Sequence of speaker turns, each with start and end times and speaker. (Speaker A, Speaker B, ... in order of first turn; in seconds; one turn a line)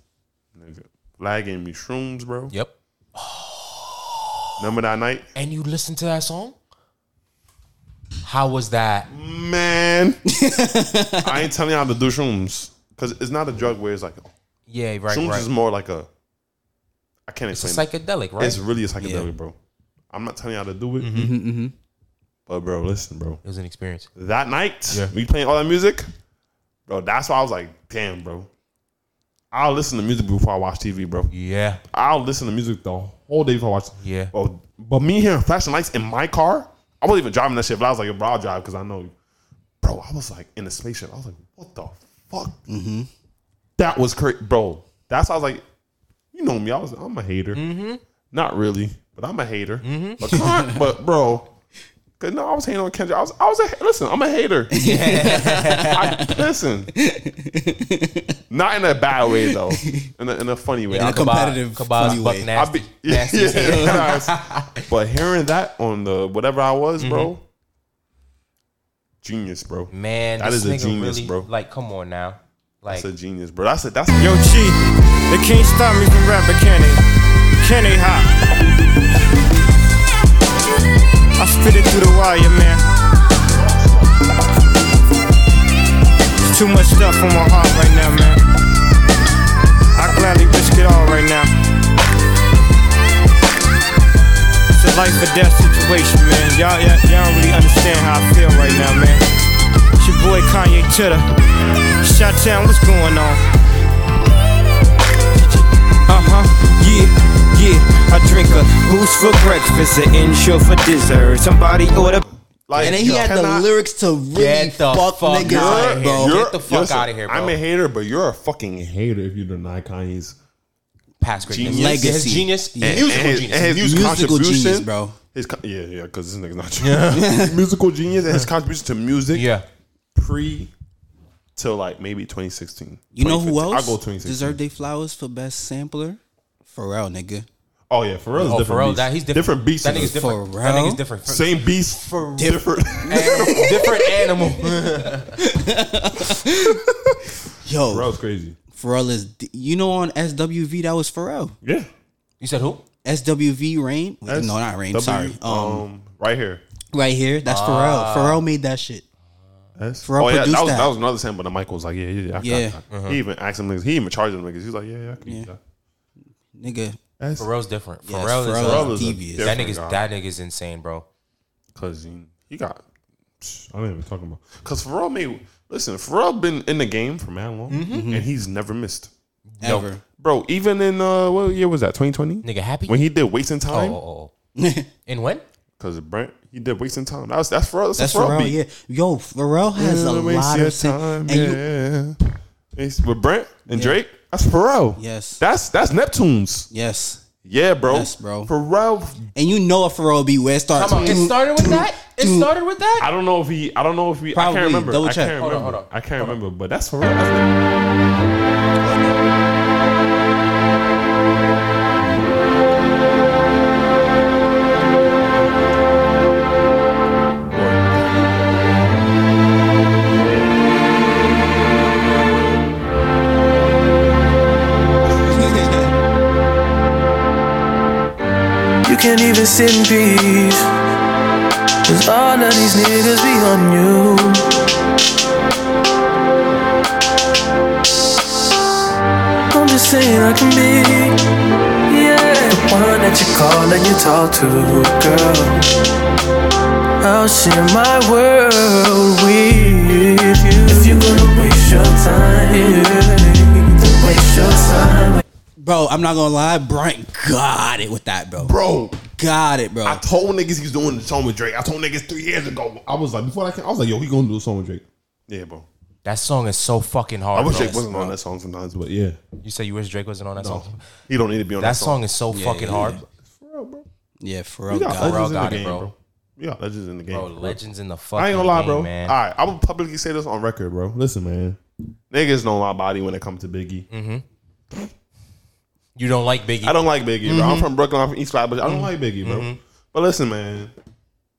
Speaker A: 0.6-2.5
Speaker B: 2.5-4.6
Speaker A: 4.6-5.3
Speaker B: 5.3-6.5
Speaker B: 8.2-9.1
Speaker A: 9.1-10.2
Speaker C: 10.3-11.4
Speaker A: 11.2-14.3
Speaker B: 14.7-15.5
Speaker A: 15.1-16.1
Speaker A: 17.3-17.9
Speaker B: 17.5-18.6
Speaker A: 18.4-19.6
Speaker C: 19.0-19.3
Speaker A: 20.1-21.1
Speaker B: 21.0-21.3
Speaker C: 21.1-21.7
Speaker A: 22.5-23.4
Speaker B: 23.4-24.1
Speaker A: 24.1-26.1
Speaker A: 26.9-28.5
Speaker A: 29.5-31.3
Speaker B: 31.3-31.8
Speaker A: 31.9-39.1
Speaker B: 34.0-34.3
Speaker A: 39.8-42.6
Speaker C: 42.7-43.1
Speaker A: 43.8-45.6
Speaker A: 46.3-47.6
Speaker B: 47.5-48.0
Speaker A: 48.3-51.5
Speaker B: 49.8-50.3
Speaker C: 50.4-50.8
Speaker A: 52.2-54.7
Speaker C: 54.7-56.4
Speaker B: 54.8-56.2
Speaker A: 55.9-56.9
Speaker C: 57.0-58.4
Speaker A: 58.5-61.4
Speaker C: 59.3-60.1
Speaker B: 60.9-64.9
Speaker C: 61.0-62.5
Speaker A: 62.5-67.4
Speaker C: 63.5-64.1
Speaker B: 67.0-67.3
Speaker A: 69.2-71.5
Speaker B: 69.9-73.1
Speaker A: 72.9-74.5
Speaker D: 74.2-74.8
Speaker D: 75.3-77.0
Speaker D: 77.6-78.3
Speaker D: 81.4-82.8
Speaker A: 83.6-84.0
Speaker D: 86.5-88.4
Speaker D: 90.0-91.5
Speaker D: 94.7-99.2
Speaker D: 100.0-101.3
Speaker D: 102.0-103.4
Speaker D: 106.1-112.2
Speaker A: 112.7-113.7
Speaker C: 112.8-116.4
Speaker B: 112.8-113.2
Speaker B: 114.3-117.6
Speaker A: 115.4-120.4
Speaker B: 121.2-124.0
Speaker A: 121.5-122.1
Speaker C: 121.6-123.1
Speaker A: 122.8-129.5
Speaker C: 123.8-125.2
Speaker B: 126.8-127.4
Speaker C: 127.2-127.5
Speaker B: 129.3-129.7
Speaker A: 130.2-130.7
Speaker A: 131.6-134.6
Speaker C: 133.1-137.5
Speaker A: 137.9-140.2
Speaker B: 138.4-141.4
Speaker C: 140.1-141.0
Speaker A: 141.3-144.1
Speaker C: 142.3-144.2
Speaker B: 143.1-145.4
Speaker C: 145.4-146.8
Speaker C: 147.6-148.1
Speaker A: 147.8-148.6
Speaker C: 148.8-151.6
Speaker A: 151.6-151.9
Speaker B: 152.4-152.8
Speaker C: 153.0-155.8
Speaker A: 154.3-156.6
Speaker C: 156.9-159.0
Speaker B: 157.5-158.4
Speaker A: 159.8-165.6
Speaker C: 160.0-160.9
Speaker C: 162.4-162.8
Speaker B: 162.9-163.2
Speaker C: 166.5-167.0
Speaker A: 167.2-167.5
Speaker B: 167.4-171.1
Speaker C: 168.1-169.5
Speaker A: 168.6-170.0
Speaker A: 171.8-172.8
Speaker A: 173.4-179.1
Speaker B: 177.7-178.1
Speaker C: 177.9-178.3
Speaker B: 179.5-179.9
Speaker C: 179.6-180.0
Speaker A: 180.2-184.0
Speaker B: 182.4-183.0
Speaker B: 183.7-184.3
Speaker C: 184.6-184.9
Speaker B: 185.1-185.4
Speaker A: 185.8-188.6
Speaker C: 188.0-191.6
Speaker A: 189.8-192.2
Speaker A: 192.8-196.7
Speaker C: 193.7-194.0
Speaker C: 195.0-195.4
Speaker C: 196.7-197.2
Speaker A: 197.4-199.3
Speaker C: 197.8-198.5
Speaker C: 199.3-202.4
Speaker B: 200.7-203.1
Speaker A: 203.0-207.6
Speaker C: 204.3-205.4
Speaker B: 205.4-206.4
Speaker C: 208.8-209.2
Speaker A: 217.5-218.3
Speaker C: 225.4-225.8
Speaker E: 229.0-230.4
Speaker E: 232.0-233.9
Speaker E: 239.6-240.8
Speaker E: 242.0-245.4
Speaker E: 247.1-253.0
Speaker E: 253.8-254.9
Speaker C: 255.6-260.0
Speaker A: 258.4-259.0
Speaker A: 259.8-265.7
Speaker B: 266.1-268.1
Speaker A: 267.3-269.2
Speaker B: 269.4-270.8
Speaker A: 270.4-272.0
Speaker B: 271.6-273.0
Speaker C: 272.3-273.0
Speaker A: 272.7-273.9
Speaker C: 274.2-275.3
Speaker A: 274.7-277.6
Speaker B: 275.0-275.9
Speaker B: 277.1-279.1
Speaker A: 278.2-281.6
Speaker A: 282.1-283.9
Speaker B: 283.9-284.2
Speaker B: 286.0-287.7
Speaker A: 286.6-290.7
Speaker B: 288.6-289.6